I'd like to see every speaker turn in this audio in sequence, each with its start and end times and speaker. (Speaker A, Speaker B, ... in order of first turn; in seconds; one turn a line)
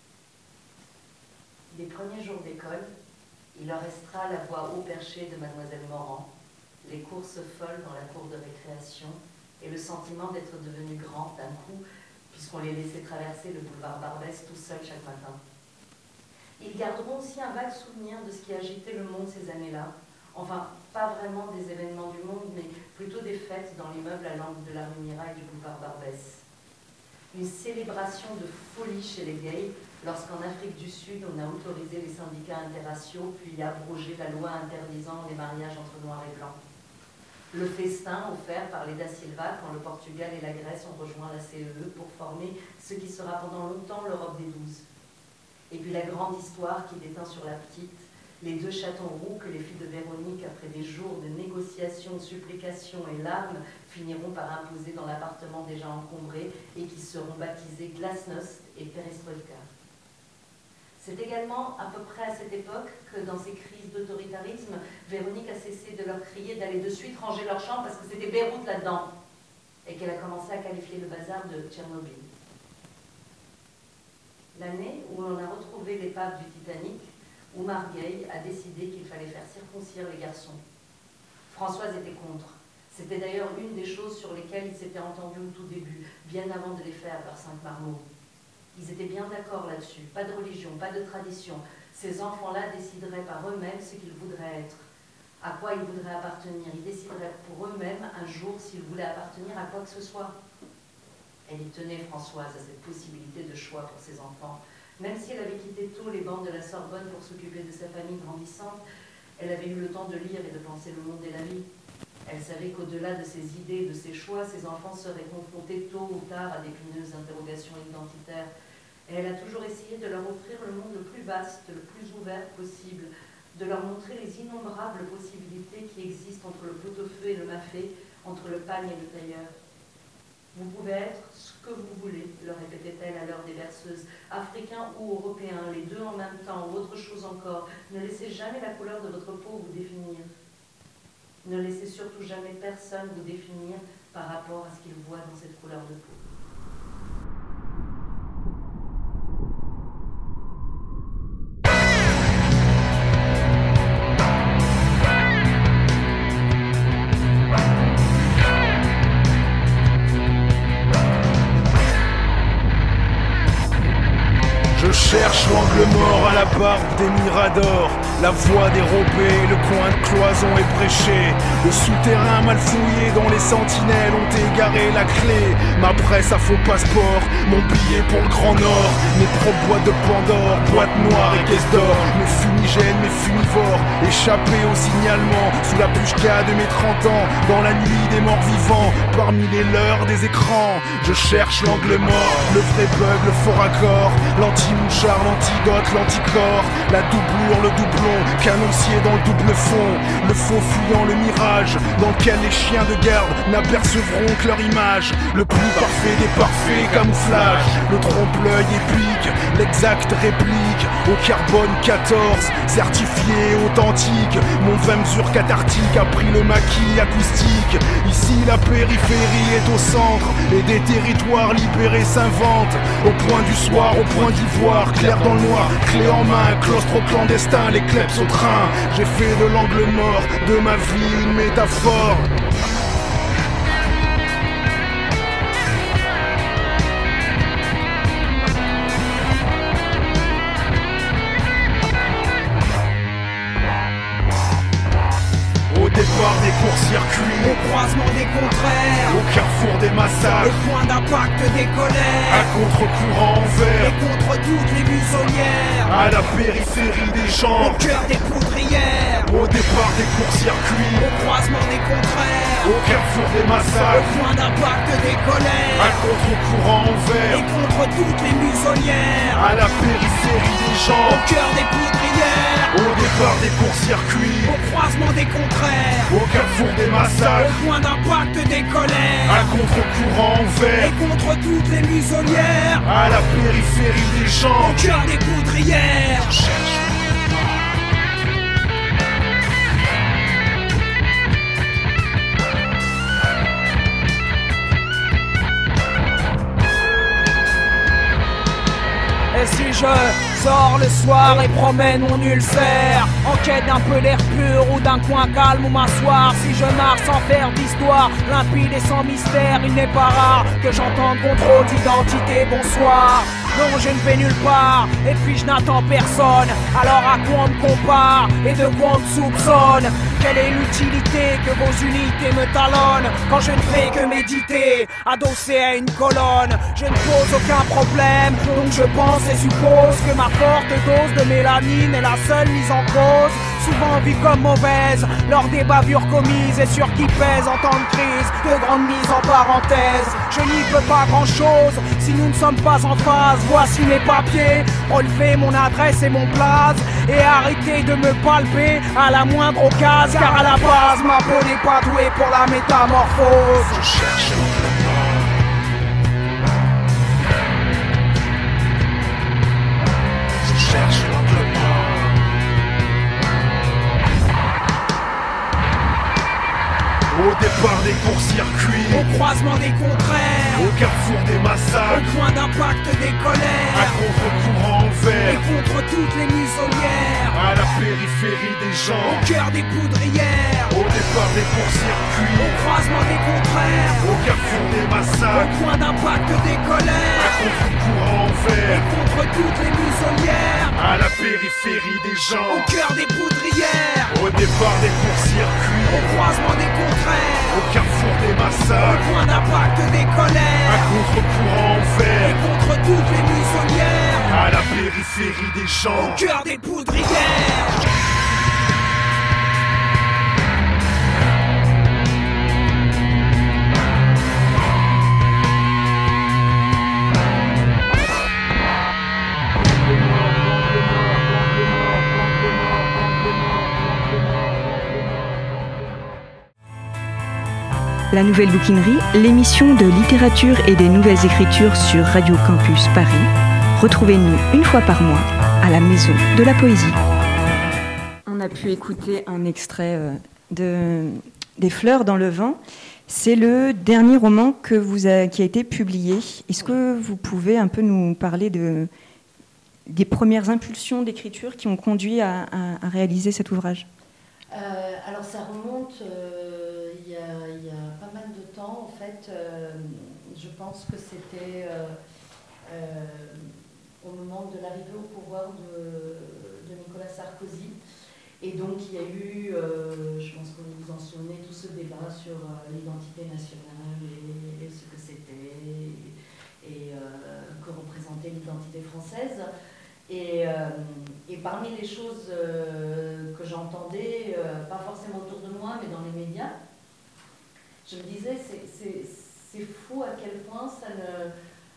Speaker A: 1.7-2.9
Speaker A: 3.5-6.3
Speaker A: 6.8-15.4
Speaker A: 16.6-26.4
Speaker A: 27.3-36.6
Speaker A: 37.5-44.9
Speaker A: 45.7-59.7
Speaker A: 61.0-69.1
Speaker A: 69.8-72.3
Speaker A: 74.5-80.6
Speaker A: 81.5-88.0
Speaker A: 88.7-94.9
Speaker A: 95.4-100.3
Speaker A: 101.5-108.8
Speaker A: 109.4-111.7
Speaker A: 112.2-118.5
Speaker A: 119.1-129.5
Speaker A: 130.5-140.3
Speaker A: 141.4-146.2
Speaker B: 164.7-232.3
Speaker B: 245.7-247.6
Speaker C: 247.4-249.2
Speaker B: 249.1-250.6
Speaker C: 250.2-252.5
Speaker B: 252.3-253.9
Speaker C: 253.7-256.1
Speaker B: 255.8-257.8
Speaker C: 257.6-259.3
Speaker B: 259.2-261.0
Speaker C: 260.9-262.9
Speaker B: 262.6-264.2
Speaker C: 263.7-266.0
Speaker B: 265.7-267.4
Speaker C: 267.2-269.4
Speaker B: 269.3-271.2
Speaker C: 271.0-272.8
Speaker B: 272.7-274.5
Speaker C: 274.4-276.1
Speaker B: 276.1-277.6
Speaker C: 277.2-279.6
Speaker B: 279.2-280.9
Speaker C: 280.8-282.8
Speaker B: 282.8-284.8
Speaker C: 284.6-286.4
Speaker B: 286.2-287.5
Speaker C: 299.3-353.8
Speaker B: 353.7-355.2
Speaker B: 360.4-362.0
Speaker B: 367.1-369.1
Speaker C: 368.9-370.7
Speaker B: 370.5-372.1
Speaker C: 371.9-374.0
Speaker B: 373.7-375.4
Speaker C: 375.2-377.4
Speaker B: 377.3-379.3
Speaker C: 379.0-380.8
Speaker B: 380.7-382.7
Speaker C: 382.4-384.2
Speaker B: 384.0-385.5
Speaker C: 385.3-387.4
Speaker B: 387.1-388.8
Speaker C: 388.6-390.8
Speaker B: 390.7-392.7
Speaker C: 392.4-394.1
Speaker B: 394.1-396.1
Speaker C: 395.8-397.6
Speaker B: 397.5-399.1
Speaker C: 398.8-400.9
Speaker B: 400.6-402.4
Speaker C: 402.2-404.4
Speaker B: 404.3-406.2
Speaker C: 405.9-407.8
Speaker D: 428.1-437.0
Speaker D: 438.2-448.9
Speaker D: 449.9-453.9
Speaker A: 454.5-461.9
Speaker A: 462.6-467.8
Speaker A: 468.4-479.5
Speaker A: 480.1-486.6
Speaker A: 487.8-491.3